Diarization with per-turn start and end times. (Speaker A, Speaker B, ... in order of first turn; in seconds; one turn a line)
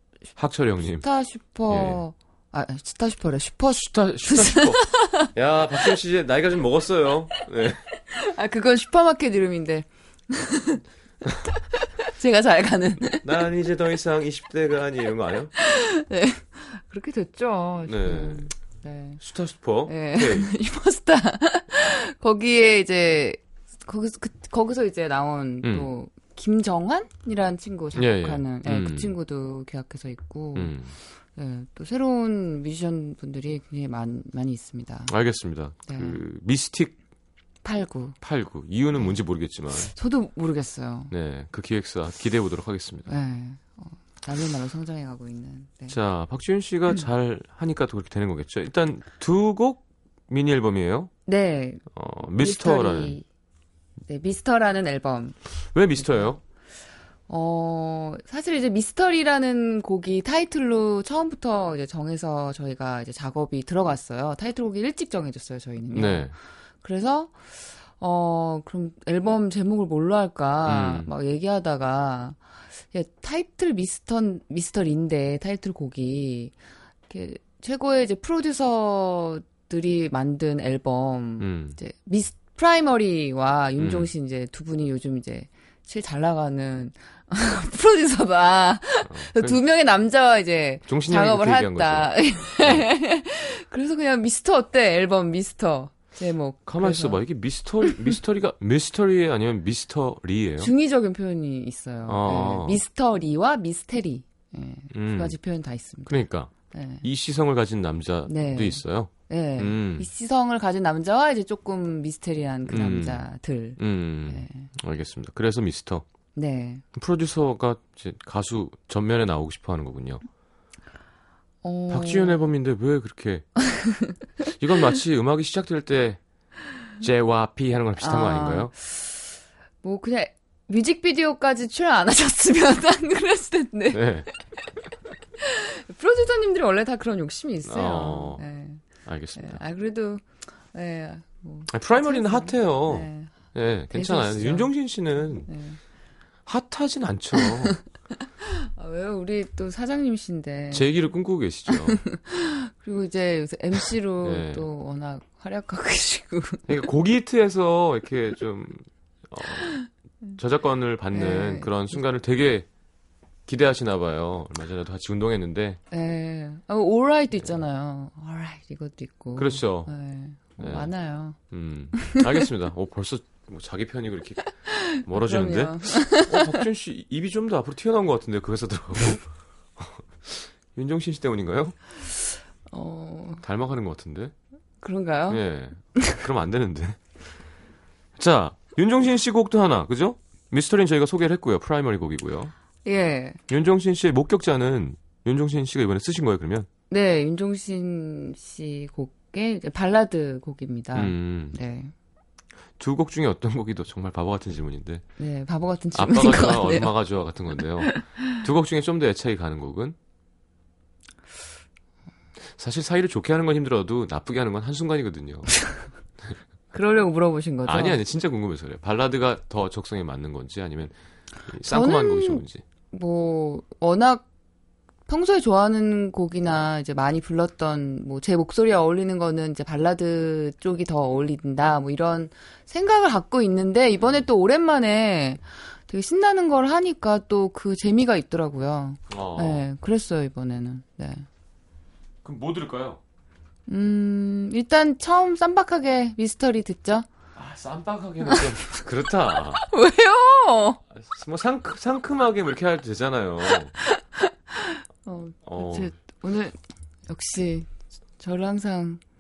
Speaker A: 0.4-1.1
Speaker B: 1.0-5.3
Speaker A: 1.7-2.0
Speaker A: 3.7-7.9
Speaker B: 8.1-10.8
Speaker B: 11.4-13.4
Speaker A: 13.2-15.5
Speaker B: 15.6-19.2
Speaker A: 17.9-18.5
Speaker A: 19.2-20.5
Speaker B: 19.9-30.8
Speaker A: 25.6-25.9
Speaker A: 27.9-29.1
Speaker A: 30.6-30.9
Speaker B: 31.4-35.1
Speaker A: 35.1-37.0
Speaker B: 35.9-36.2
Speaker B: 37.6-38.2
Speaker A: 38.2-39.9
Speaker B: 39.8-41.1
Speaker A: 41.1-43.1
Speaker B: 43.1-46.0
Speaker A: 45.9-51.1
Speaker B: 51.3-53.3
Speaker A: 51.9-53.2
Speaker B: 54.1-55.4
Speaker A: 55.7-56.4
Speaker B: 56.0-56.3
Speaker B: 57.3-66.3
Speaker A: 65.9-66.3
Speaker B: 66.8-76.6
Speaker A: 70.7-71.1
Speaker B: 77.1-97.2
Speaker A: 81.4-81.8
Speaker A: 83.8-84.1
Speaker A: 89.1-89.6
Speaker A: 90.9-92.9
Speaker A: 96.7-100.7
Speaker B: 100.6-107.0
Speaker A: 102.1-102.8
Speaker A: 104.9-105.4
Speaker A: 106.1-110.1
Speaker B: 108.3-114.7
Speaker A: 112.7-113.3
Speaker A: 113.8-116.0
Speaker B: 116.3-116.8
Speaker A: 116.9-120.2
Speaker B: 121.6-122.4
Speaker A: 121.9-123.5
Speaker B: 123.7-124.2
Speaker A: 124.5-126.2
Speaker A: 127.0-128.7
Speaker B: 128.0-129.2
Speaker B: 129.8-134.7
Speaker A: 133.9-134.3
Speaker B: 135.4-138.8
Speaker A: 137.7-138.4
Speaker A: 139.1-139.6
Speaker B: 139.4-143.3
Speaker A: 141.7-145.5
Speaker B: 143.9-144.7
Speaker B: 145.5-145.8
Speaker A: 146.5-147.8
Speaker B: 147.4-147.8
Speaker B: 148.4-150.9
Speaker A: 150.7-152.0
Speaker B: 151.7-156.7
Speaker A: 154.2-154.7
Speaker A: 156.7-159.8
Speaker A: 160.4-162.7
Speaker B: 161.1-161.9
Speaker A: 163.5-165.8
Speaker B: 165.9-171.4
Speaker A: 169.3-169.9
Speaker A: 170.6-181.8
Speaker B: 171.9-172.3
Speaker B: 174.5-176.6
Speaker B: 182.7-183.4
Speaker A: 183.4-184.3
Speaker B: 184.8-185.4
Speaker A: 185.3-187.2
Speaker A: 188.2-192.5
Speaker B: 192.8-193.4
Speaker A: 193.5-196.7
Speaker B: 196.9-201.9
Speaker A: 200.9-201.6
Speaker A: 202.8-205.1
Speaker B: 205.2-206.9
Speaker A: 205.9-210.0
Speaker B: 207.6-208.3
Speaker A: 212.4-215.6
Speaker B: 216.7-218.0
Speaker A: 217.7-220.9
Speaker A: 221.5-222.6
Speaker B: 221.6-224.3
Speaker B: 225.1-241.3
Speaker A: 239.1-239.7
Speaker A: 242.2-243.0
Speaker B: 243.7-247.1
Speaker A: 247.3-249.7
Speaker B: 248.3-248.8
Speaker B: 249.5-250.8
Speaker A: 250.9-253.7
Speaker B: 253.8-256.6
Speaker A: 255.4-255.9
Speaker B: 257.1-259.0